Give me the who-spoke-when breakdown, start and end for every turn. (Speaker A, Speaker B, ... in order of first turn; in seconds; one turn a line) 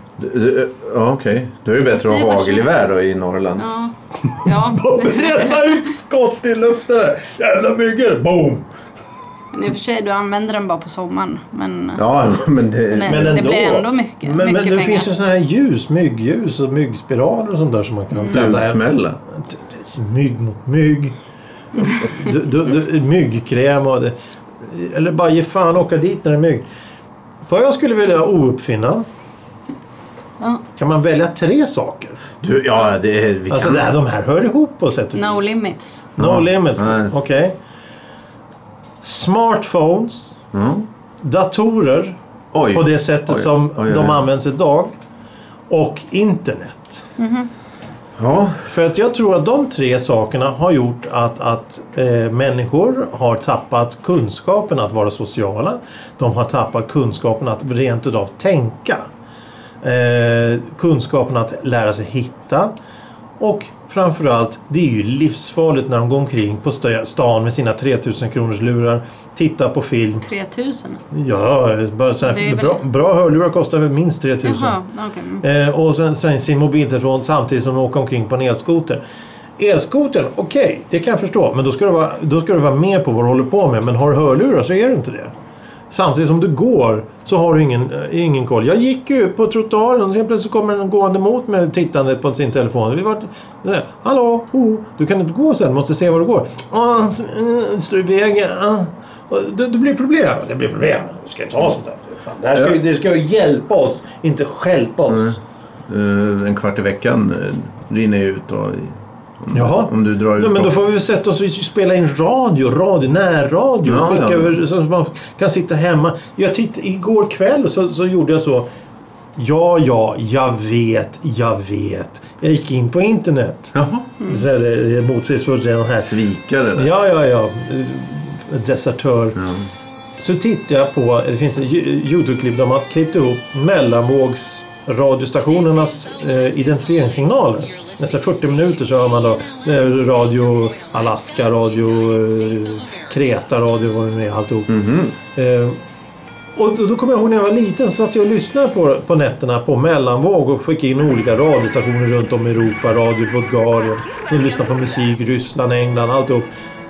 Speaker A: 0.2-3.7
Speaker B: 1.9-2.7
Speaker B: 3.6-5.8
Speaker C: 4.4-8.7
Speaker B: 9.5-12.0
Speaker A: 12.0-13.5
Speaker B: 12.9-15.1
Speaker C: 13.1-21.1
Speaker A: 18.2-19.2
Speaker C: 21.8-26.7
Speaker C: 27.5-29.1
Speaker C: 30.8-32.2
Speaker A: 32.4-33.9
Speaker C: 33.5-35.5
Speaker B: 35.1-36.1
Speaker A: 36.2-37.2
Speaker C: 36.2-37.6
Speaker C: 39.0-40.4
Speaker A: 40.5-40.9
Speaker C: 41.2-42.2
Speaker A: 42.5-44.2
Speaker C: 42.7-44.9
Speaker C: 45.7-47.0
Speaker B: 47.2-47.5
Speaker A: 48.2-48.6
Speaker C: 48.7-59.1
Speaker C: 59.8-62.7
Speaker C: 63.4-70.2
Speaker B: 70.2-71.0
Speaker C: 71.1-74.8
Speaker B: 72.2-72.8
Speaker B: 74.4-75.4
Speaker C: 75.4-79.0
Speaker C: 79.6-85.3
Speaker C: 85.9-105.4
Speaker A: 105.1-105.4
Speaker A: 105.9-110.7
Speaker C: 109.5-118.7
Speaker A: 113.8-114.5
Speaker C: 119.4-126.2
Speaker A: 123.7-124.1
Speaker A: 126.0-126.9
Speaker C: 126.8-129.4
Speaker A: 129.4-129.7
Speaker C: 130.2-145.8
Speaker A: 144.7-145.2
Speaker C: 146.6-156.5